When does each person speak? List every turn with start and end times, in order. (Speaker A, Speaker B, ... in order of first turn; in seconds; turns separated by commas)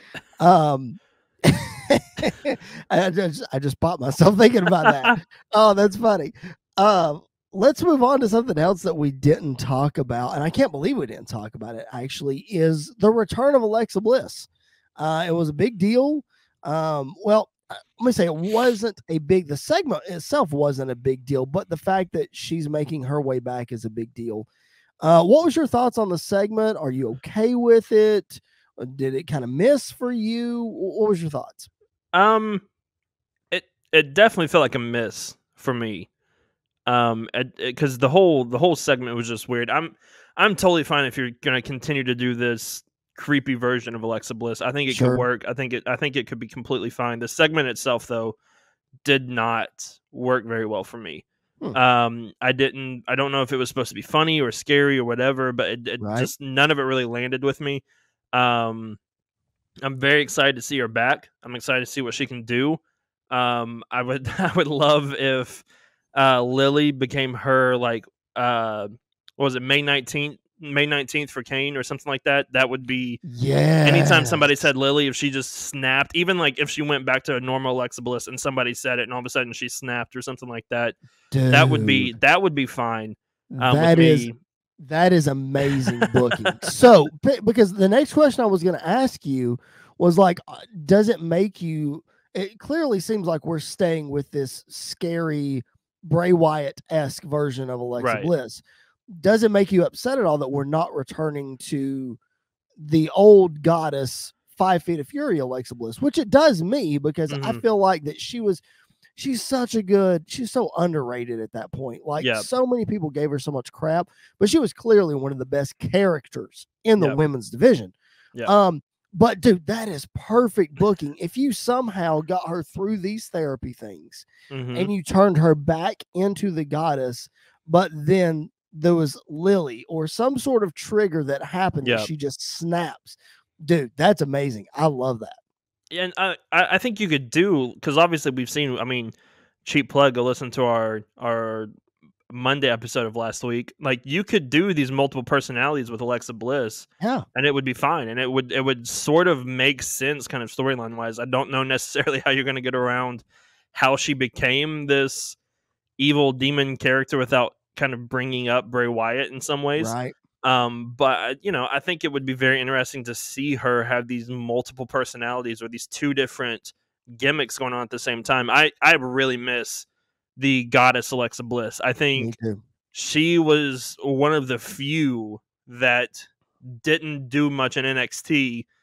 Speaker A: 0.4-24.5, Speaker B: 4.8-5.2, Speaker A: 25.0-31.7, Speaker B: 32.1-32.6, Speaker B: 33.5-36.1, Speaker B: 36.9-48.4, Speaker A: 44.9-45.2, Speaker B: 49.0-59.0, Speaker A: 56.0-56.3, Speaker B: 59.8-73.2, Speaker A: 73.2-74.7, Speaker B: 73.8-81.0, Speaker A: 81.3-82.1, Speaker B: 81.5-84.4, Speaker A: 83.5-84.3, Speaker A: 84.8-102.2, Speaker B: 85.7-86.7, Speaker B: 98.0-98.3, Speaker A: 102.8-108.6, Speaker B: 107.3-107.6, Speaker A: 109.2-117.9, Speaker B: 112.2-112.5, Speaker A: 118.5-135.4, Speaker B: 124.5-124.9, Speaker B: 131.8-132.1, Speaker B: 135.9-139.1, Speaker B: 139.6-141.7, Speaker B: 142.3-155.4, Speaker A: 147.0-147.2, Speaker B: 156.0-169.8, Speaker A: 159.8-160.1, Speaker B: 170.4-172.3, Speaker A: 172.2-172.6, Speaker B: 172.9-178.7